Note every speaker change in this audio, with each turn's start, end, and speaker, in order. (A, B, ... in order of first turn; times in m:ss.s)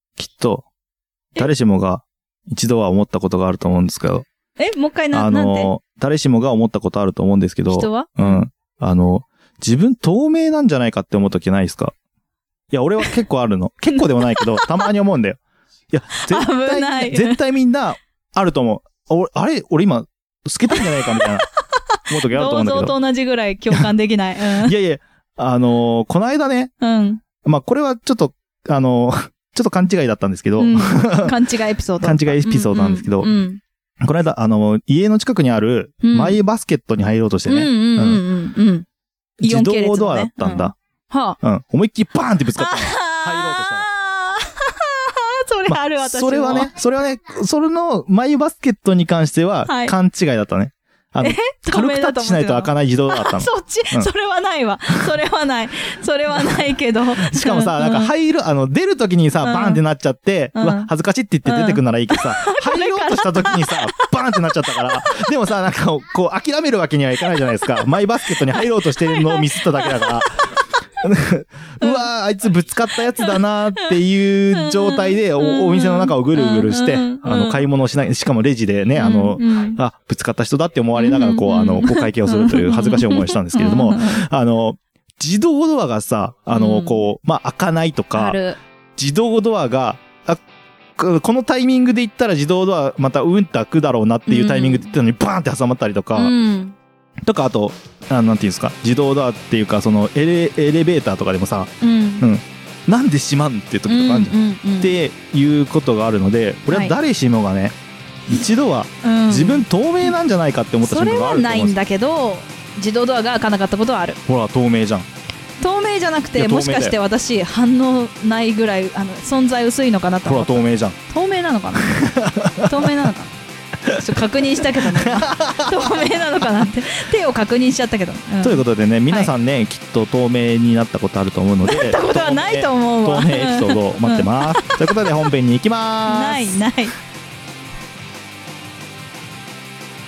0:00.2-0:00.6 A
0:01.4-0:04.2 A
0:04.6-0:05.7 B
0:05.1-0:11.9 A
0:07.7-0:08.4 B
0:12.7-0:15.4 A
0:13.9-0:14.9 B
0:15.9-0:21.5 A
0:16.2-0:17.4 B
0:20.7-0:24.7 B
0:22.1-0:23.0 A
0:24.6-0:26.7 A
0:26.8-0:27.2 B
0:27.4-0:31.4 A
0:30.6-0:33.6 B
0:32.0-0:33.4 A
0:34.0-0:38.2 A
0:36.0-0:36.4 B
0:37.5-0:38.8 B
0:39.4-0:40.7 A
0:39.4-0:41.4 B
0:41.4-0:43.8 A
0:42.6-0:46.7 B
0:45.7-0:54.1 A
0:49.6-0:49.9 B
0:51.2-0:58.1 B
0:57.2-1:10.5 A
0:59.4-0:59.8 B
1:00.5-1:00.9 B
1:01.4-1:05.2 B
1:07.5-1:07.8 B
1:08.3-1:10.2 B
1:11.0-1:28.4 A
1:11.8-1:12.1 B
1:13.2-1:14.0 B
1:14.5-1:17.6 B
1:19.0-1:19.8 B
1:20.9-1:24.2 B
1:26.5-1:27.0 B
1:28.2-1:28.6 B
1:29.0-1:30.4 A
1:31.0-1:36.3 A
1:34.3-1:34.9 B
1:36.1-1:36.8 B
1:37.3-1:47.7 A
1:41.8-1:42.2 B
1:43.9-1:44.9 B
1:46.7-1:46.9 B
1:48.3-1:51.8 A
1:49.0-1:49.6 B
1:50.8-1:54.2 B
1:54.3-1:55.1 A
1:55.6-2:03.3 B
1:56.3-1:57.0 A
2:00.2-2:01.0 A
2:01.8-2:03.1 A
2:03.9-2:09.3 B
2:04.8-2:06.1 A
2:08.4-2:16.6 A
2:11.6-2:14.8 B
2:16.0-2:16.9 B